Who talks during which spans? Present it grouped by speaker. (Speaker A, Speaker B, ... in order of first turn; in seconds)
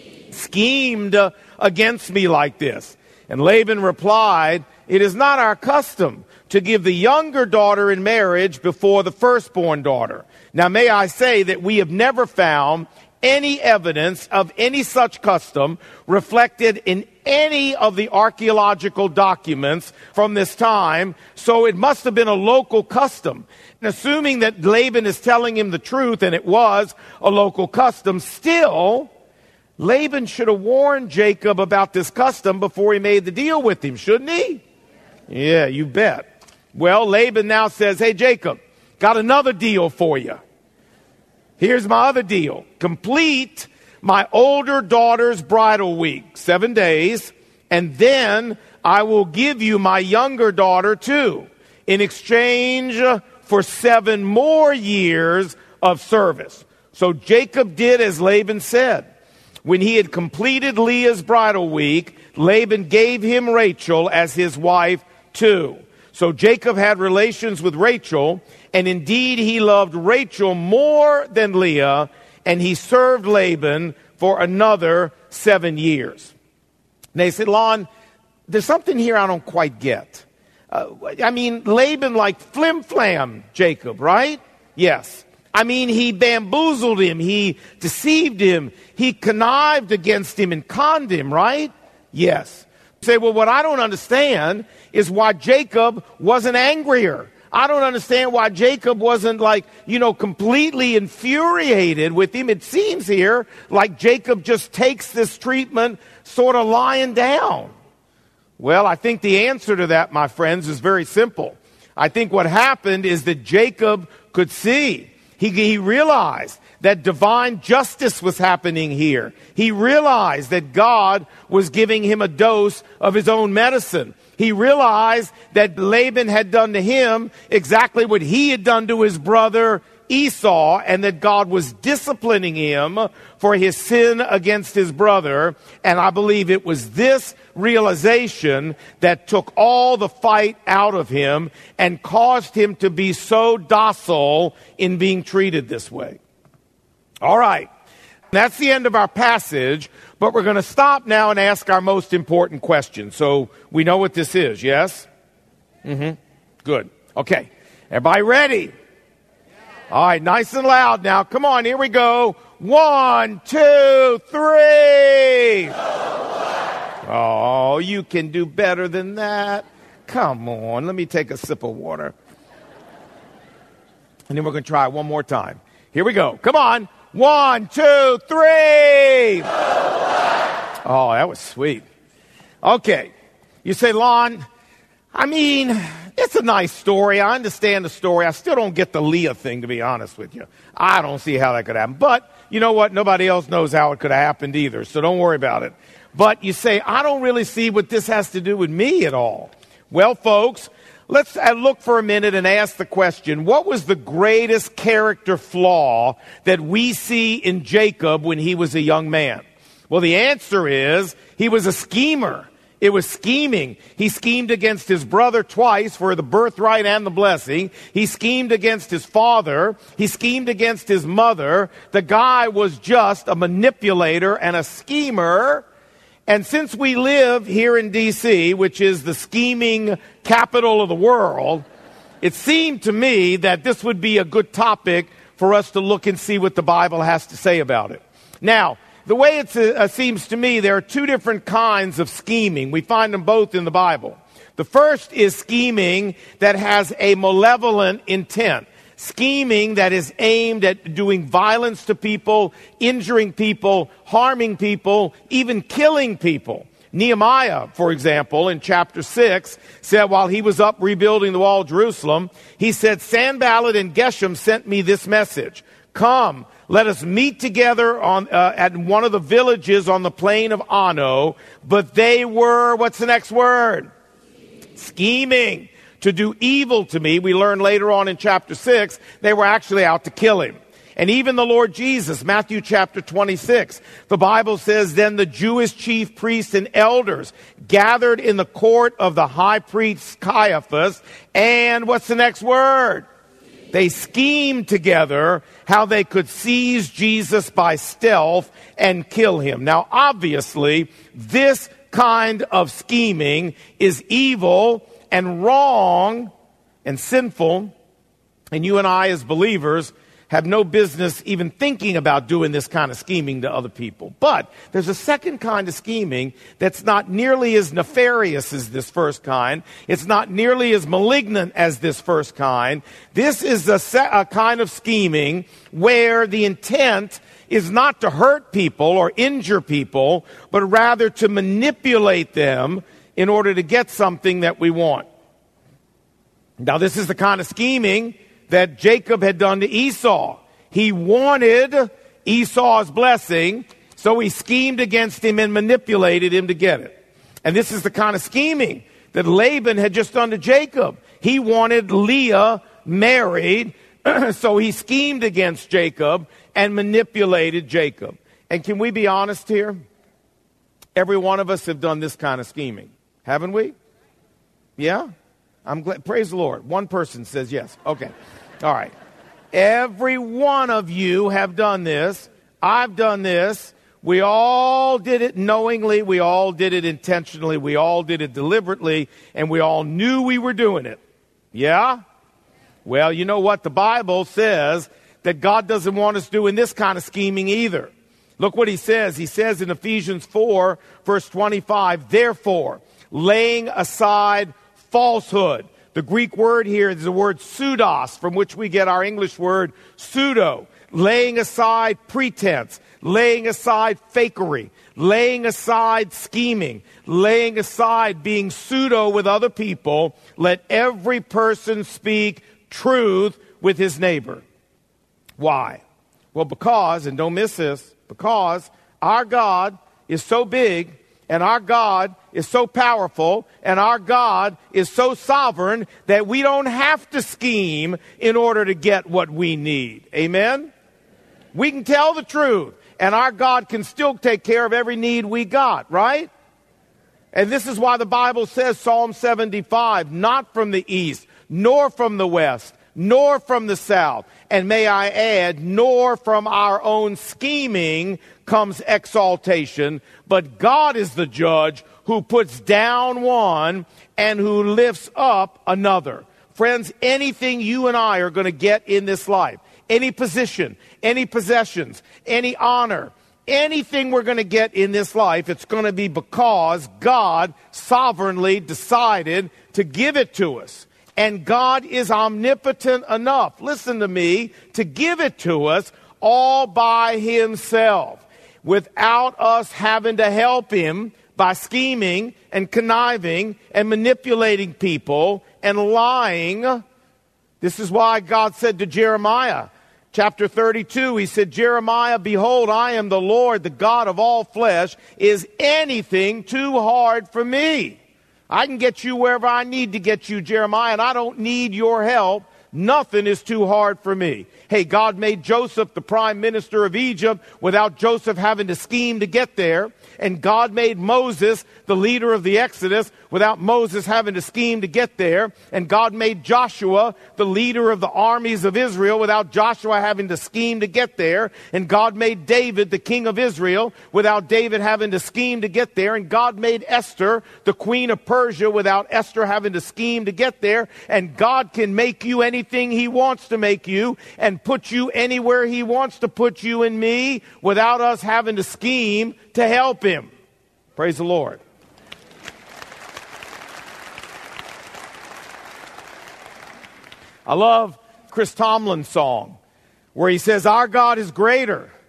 Speaker A: 0.3-29.1, 29.8-34.6, 35.3-40.4, 41.6-59.1, 59.6-76.3, 77.2-77.9, 78.5-107.7, 108.6-146.2, 147.2-147.7, 148.3-155.1, 155.8-158.7, 159.9-165.8, 167.0-172.2, 174.3-179.5, 180.8-181.8, 182.6-183.1, 183.6-184.4, 185.1-225.7, 226.3-231.7, 232.2-273.9, 274.8-293.1, 293.7-306.3, 306.9-307.7, 308.5-335.1, 336.6-359.8, 361.0-363.8, 364.8-365.1, 365.6-368.9, 369.5-381.0, 381.5-382.0, 382.9-414.4, 415.4-415.8, 416.3-430.7, 431.5-436.3, 437.3-486.8, 487.6-498.0, 498.5-540.3, 541.0-541.6, 547.5-549.6, 550.1-551.9